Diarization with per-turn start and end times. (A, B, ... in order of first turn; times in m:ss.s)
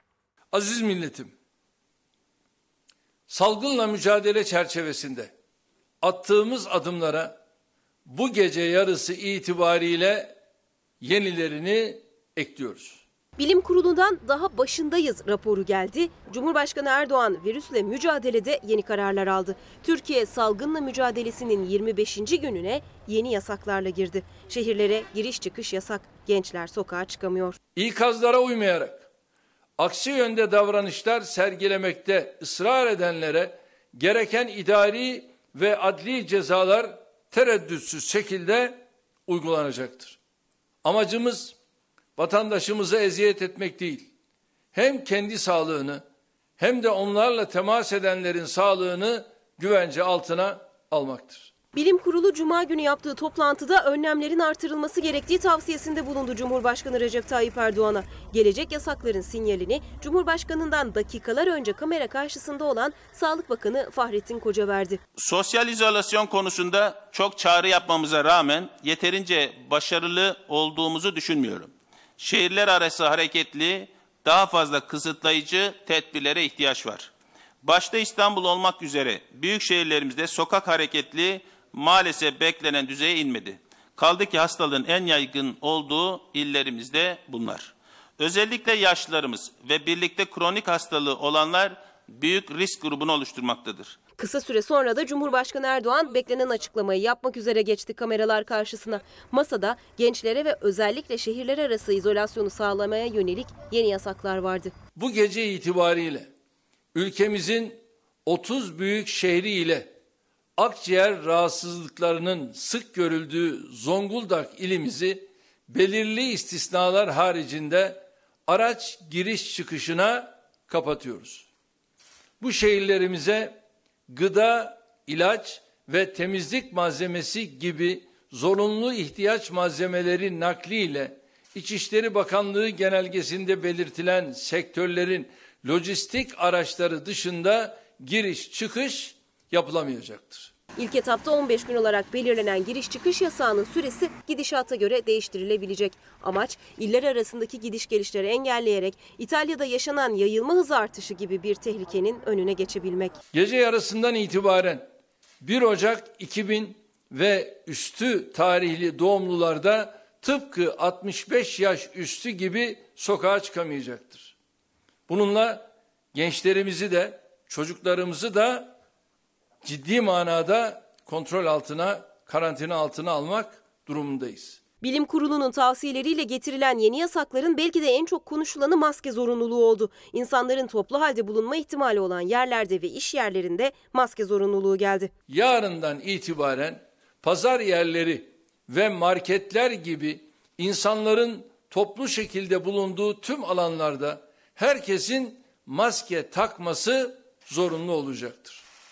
0:00.5-0:01.3 A
0:03.3-0:05.3 A
0:06.0-0:07.4 A
0:08.1-0:10.3 A
0:11.0-0:13.0 A
0:13.4-0:27.6 B
0:27.8-0:29.0 A
0:29.8-0:40.2 A
0:40.8-0:41.6 A
0:42.2-0:44.1 A
0:44.7-0:46.0 A
0:46.6-0:51.5 A
0:51.7-1:05.0 B
1:05.2-1:17.1 C
1:17.6-1:34.0 C
1:34.2-1:44.7 B
1:45.0-1:46.3 A
1:46.9-1:49.9 A
1:50.6-2:01.5 A
2:02.4-2:03.6 A
2:04.1-2:20.5 A
2:20.8-2:33.2 B
2:33.3-2:34.9 A
2:35.4-2:44.3 A
2:45.1-2:48.7 A
2:49.6-2:54.6 A
2:54.8-3:05.1 B
3:05.3-3:18.6 A